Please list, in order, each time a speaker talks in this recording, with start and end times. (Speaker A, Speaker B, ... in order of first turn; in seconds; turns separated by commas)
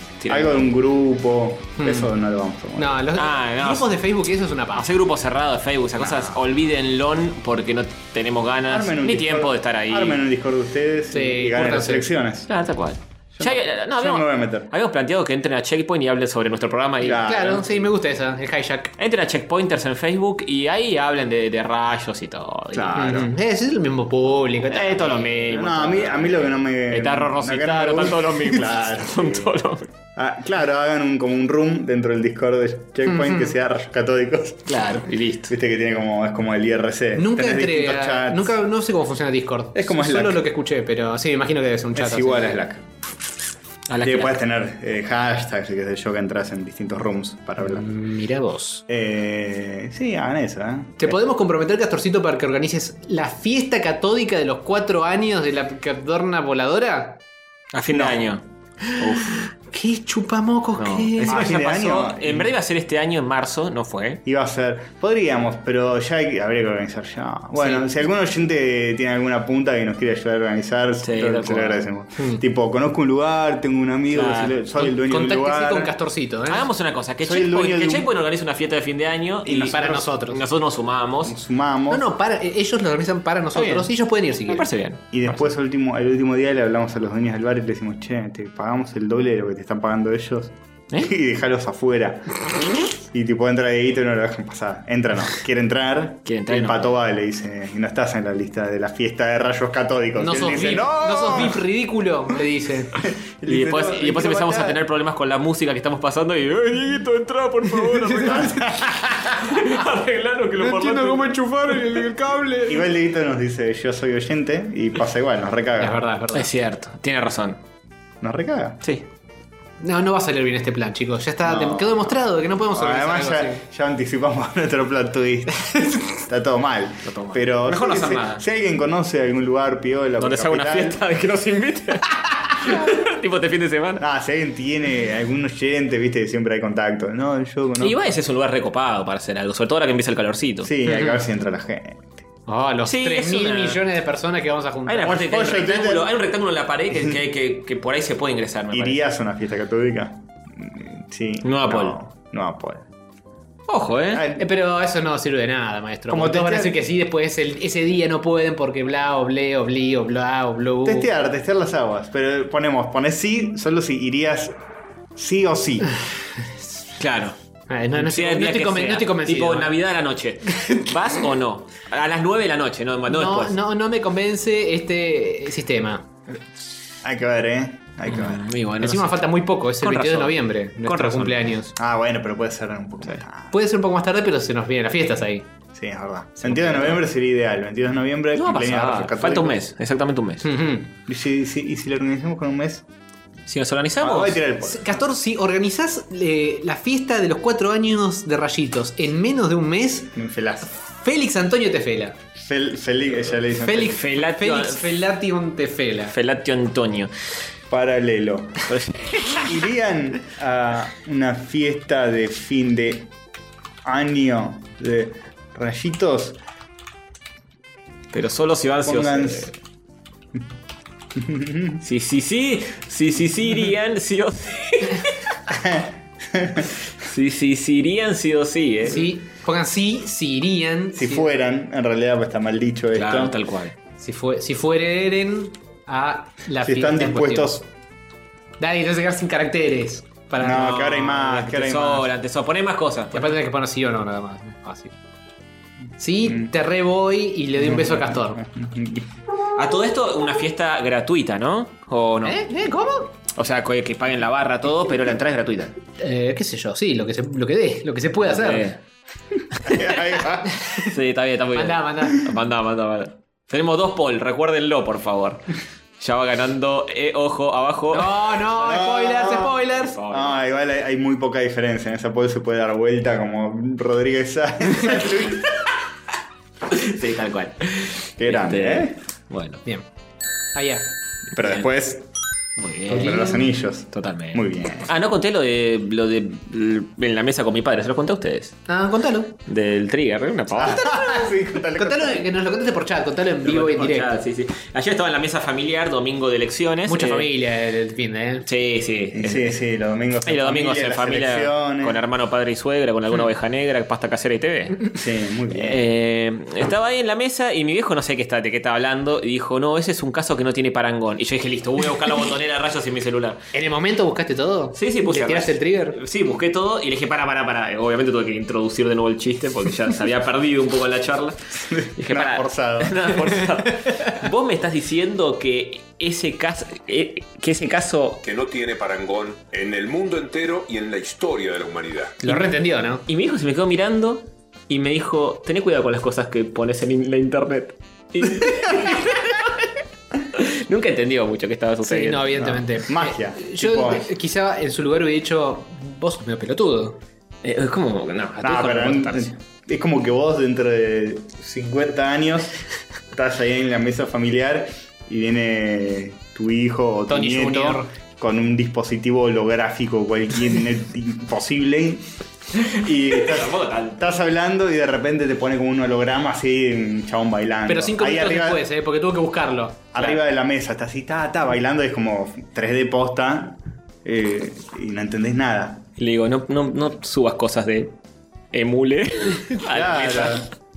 Speaker A: 0.2-0.7, Speaker B: 0.3-3.0, Speaker C: 1.8-2.1, Speaker C: 2.8-4.9, Speaker A: 3.1-3.9, Speaker A: 4.8-10.2, Speaker B: 6.0-6.4, Speaker B: 8.7-12.5, Speaker C: 11.1-12.1, Speaker A: 12.5-17.3, Speaker B: 13.4-14.7, Speaker B: 17.0-17.8, Speaker C: 17.2-18.9, Speaker A: 19.0-23.2, Speaker B: 22.7-23.3, Speaker C: 23.0-25.3, Speaker A: 24.7-29.9, Speaker B: 25.5-29.5, Speaker B: 30.1-34.9, Speaker C: 33.1-33.5, Speaker A: 34.7-35.5, Speaker B: 35.5-38.6, Speaker C: 37.1-42.5, Speaker B: 39.8-40.5, Speaker B: 41.9-42.8, Speaker A: 43.9-44.4, Speaker B: 44.0-47.9, Speaker C: 47.6-48.8, Speaker B: 48.9-51.2, Speaker C: 51.0-57.2, Speaker A: 57.7-58.4, Speaker B: 57.9-58.3, Speaker C: 58.9-61.4, Speaker A: 59.0-59.4, Speaker A: 60.8-64.2, Speaker B: 61.3-62.5, Speaker B: 64.2-75.9, Speaker C: 67.6-67.8, Speaker A: 71.0-71.8, Speaker A: 74.1-74.6, Speaker C: 74.8-76.7, Speaker A: 76.5-81.4, Speaker B: 77.2-78.1, Speaker B: 79.5-80.0, Speaker C: 79.6-80.4, Speaker B: 81.2-82.1, Speaker C: 81.9-84.7, Speaker A: 84.5-85.4, Speaker B: 85.1-92.5, Speaker B: 93.0-101.6, Speaker A: 96.3-96.9, Speaker C: 100.2-103.0, Speaker B: 103.0-104.8, Speaker A: 103.5-112.1, Speaker B: 108.2-109.0, Speaker C: 110.6-112.7, Speaker B: 112.6-116.0, Speaker C: 115.8-116.5, Speaker A: 116.3-117.6, Speaker B: 118.2-118.8, Speaker C: 119.8-123.6, Speaker B: 121.4-131.0, Speaker A: 127.0-128.4, Speaker A: 130.2-134.0, Speaker B: 134.0-138.0, Speaker A: 137.8-140.7, Speaker B: 140.6-142.2, Speaker C: 140.9-141.2, Speaker C: 142.5-145.2, Speaker A: 142.8-143.8, Speaker A: 144.9-149.0, Speaker B: 145.0-146.1, Speaker B: 146.9-147.2, Speaker B: 148.7-152.9, Speaker A: 151.4-152.0, Speaker A: 153.7-154.3, Speaker B: 154.1-154.5, Speaker C: 154.4-161.1, Speaker B: 156.1-156.8, Speaker B: 160.8-164.6, Speaker B: 165.2-165.9, Speaker A: 167.0-167.3, Speaker C: 167.7-169.8, Speaker A: 167.9-173.6, Speaker C: 173.1-176.1, Speaker B: 177.0-178.5, Speaker A: 178.1-179.2, Speaker C: 178.6-181.7, Speaker A: 179.8-181.5, Speaker B: 181.8-183.5, Speaker C: 183.5-185.5, Speaker B: 185.8-189.6, Speaker A: 186.6-187.0, Speaker A: 188.4-190.5, Speaker C: 190.4-190.9, Speaker B: 191.1-192.8, Speaker A: 193.5-194.4, Speaker B: 194.0-195.0, Speaker C: 194.6-200.1, Speaker B: 200.1-200.7, Speaker C: 200.9-202.2, Speaker B: 202.4-204.0, Speaker C: 203.6-206.2, Speaker A: 203.7-205.0, Speaker A: 206.1-207.1, Speaker B: 207.7-208.7, Speaker A: 208.7-209.5, Speaker B: 209.4-213.1, Speaker B: 213.8-216.4, Speaker A: 218.1-219.5, Speaker B: 218.8-219.5, Speaker B: 221.2-221.8, Speaker A: 221.8-225.3, Speaker B: 225.5-226.7, Speaker A: 227.0-229.1, Speaker C: 228.8-231.3, Speaker B: 230.9-233.4, Speaker A: 232.9-233.8, Speaker C: 234.0-237.6, Speaker B: 236.6-237.7, Speaker C: 238.6-240.7, Speaker B: 240.4-242.1, Speaker A: 240.4-243.4, Speaker C: 243.1-244.9, Speaker C: 246.0-248.4, Speaker B: 247.6-249.1, Speaker A: 249.6-252.4, Speaker C: 252.2-253.1, Speaker A: 253.3-255.8, Speaker C: 256.0-258.7, Speaker A: 258.2-258.8, Speaker A: 259.6-260.1, Speaker B: 259.6-260.6, Speaker A: 260.7-268.4, Speaker C: 261.6-262.3, Speaker C: 267.9-270.0, Speaker B: 268.5-275.5, Speaker A: 269.8-270.4, Speaker A: 276.7-279.6, Speaker B: 278.2-278.9, Speaker C: 280.6-280.9, Speaker B: 281.3-282.1, Speaker A: 281.4-281.7, Speaker A: 282.6-283.4, Speaker C: 282.9-283.4, Speaker B: 282.9-284.9, Speaker A: 283.9-288.6, Speaker C: 288.7-289.3, Speaker A: 289.5-290.9, Speaker B: 290.6-292.3, Speaker C: 290.9-294.1, Speaker A: 293.4-297.3, Speaker C: 296.9-298.5, Speaker A: 298.5-299.5, Speaker B: 299.1-302.0, Speaker A: 300.2-304.9, Speaker B: 304.9-305.8, Speaker A: 305.5-313.4, Speaker C: 313.5-316.0, Speaker A: 314.7-328.2, Speaker B: 321.7-323.1, Speaker D: 328.2-332.2, Speaker C: 332.2-333.0, Speaker A: 333.1-339.6, Speaker A: 340.3-342.5, Speaker C: 341.8-347.0, Speaker B: 342.4-344.1, Speaker A: 347.4-349.4, Speaker B: 348.4-352.6, Speaker B: 353.1-362.1, Speaker C: 357.1-357.9, Speaker A: 362.6-364.0, Speaker B: 362.7-368.6, Speaker C: 367.7-369.9, Speaker B: 369.9-375.9, Speaker A: 376.0-377.9, Speaker A: 378.5-380.5, Speaker B: 379.7-380.5